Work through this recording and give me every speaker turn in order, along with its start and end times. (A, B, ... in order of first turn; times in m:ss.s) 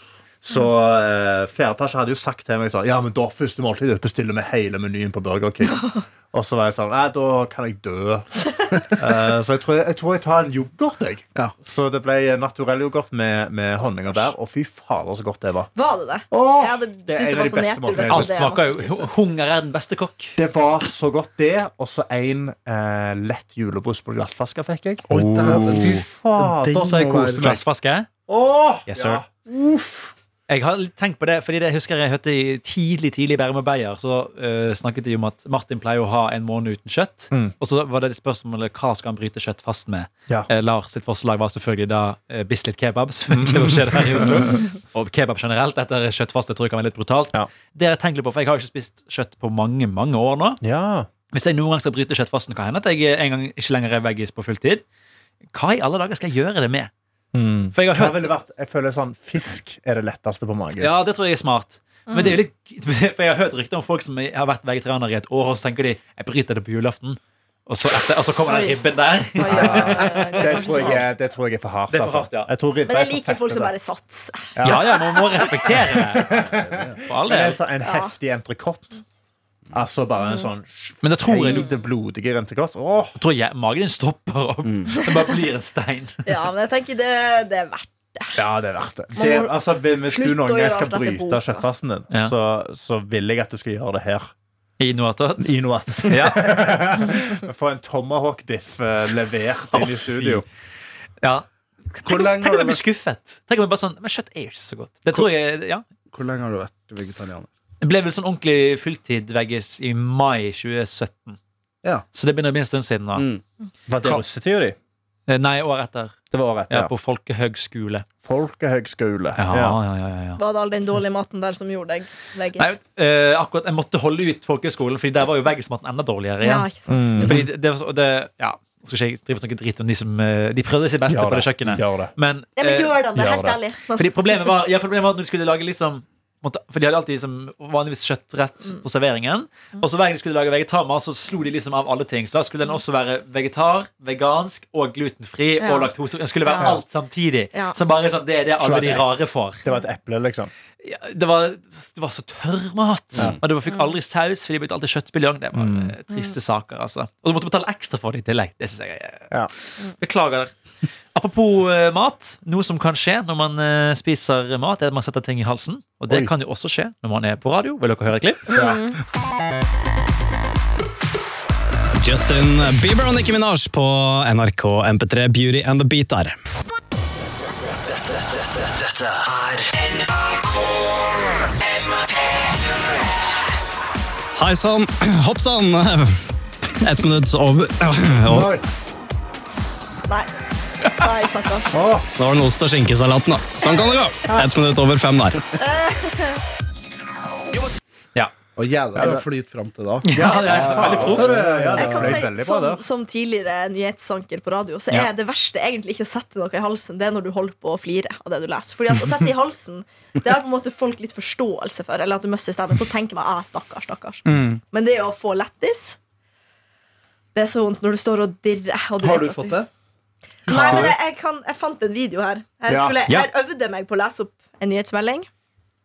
0:00.4-0:08.3 A
0:05.7-0:06.0 B
0:09.0-0:15.7 A
0:13.7-0:14.3 B
0:15.8-0:19.1 B
0:16.3-0:18.4 A
0:18.1-0:20.4 C
0:20.4-0:27.6 A
0:25.1-0:27.6 D
0:25.4-0:25.7 C
0:27.4-0:28.1 C
0:28.3-0:30.1 A
0:28.9-0:29.2 C
0:30.5-0:50.6 C
0:43.3-0:44.6 A
0:50.6-0:51.1 A
0:51.3-0:54.8 C
0:55.5-0:56.9 C
0:57.3-1:00.9 A
0:57.7-0:58.3 C
1:00.8-1:10.9 C
1:02.1-1:02.4 B
1:08.5-1:08.8 B
1:09.4-1:11.0 B
1:09.5-1:13.7 A
1:09.5-1:10.0 D
1:11.9-1:12.5 C
1:12.9-1:15.4 B
1:14.6-1:15.0 A
1:14.6-1:16.5 C
1:16.1-1:19.0 A
1:16.4-1:17.0 D
1:17.0-1:17.6 C
1:17.8-1:18.1 B
1:19.7-1:23.2 A
1:20.2-1:20.5 B
1:21.0-1:21.7 C
1:21.5-1:21.8 B
1:23.2-1:26.2 C
1:26.3-1:28.4 B
1:28.4-1:34.3 A
1:29.2-1:31.6 B
1:34.8-1:36.6 C
1:35.4-1:40.4 A
1:39.7-1:40.4 C
1:41.2-1:41.5 C
1:42.0-1:45.8 C
1:42.0-1:42.8 D
1:46.1-1:47.5 D
1:47.8-1:51.4 C
1:52.1-1:53.3 C
1:53.2-1:53.4 D
1:53.9-1:54.8 A
1:55.3-1:58.0 C
1:56.3-1:56.9 A
1:58.2-1:59.8 A
1:59.4-2:00.4 C
2:00.4-2:02.8 B
2:02.6-2:13.0 C
2:06.4-2:07.2 B
2:06.9-2:07.5 A
2:11.1-2:12.1 A
2:12.6-2:14.5 B
2:13.2-2:13.6 A
2:14.0-2:29.6 C
2:25.6-2:25.9 B
2:26.4-2:26.8 B
2:28.6-2:29.1 A
2:29.6-2:30.5 A
2:30.8-2:40.5 C
2:35.5-2:36.0 A
2:41.1-2:48.5 C
2:48.5-2:49.0 B
2:48.5-2:48.8 A
2:52.0-2:56.4 E
3:04.4-3:06.2 E
3:06.8-3:08.5 E
3:08.3-3:08.6 A
3:11.0-3:11.7 B
3:11.7-3:12.1 A
3:12.2-3:15.4 E
3:15.6-3:16.4 B
3:18.6-3:22.2 D
3:19.0-3:19.2 A
3:20.1-3:21.4 C
3:20.1-3:22.8 A
3:21.8-3:36.0 B
3:34.3-3:34.6 C
3:37.4-3:39.6 B
3:39.0-3:39.7 D
3:40.5-3:40.9 D
3:40.5-3:45.3 B
3:40.5-3:40.9 A
3:42.7-3:43.0 A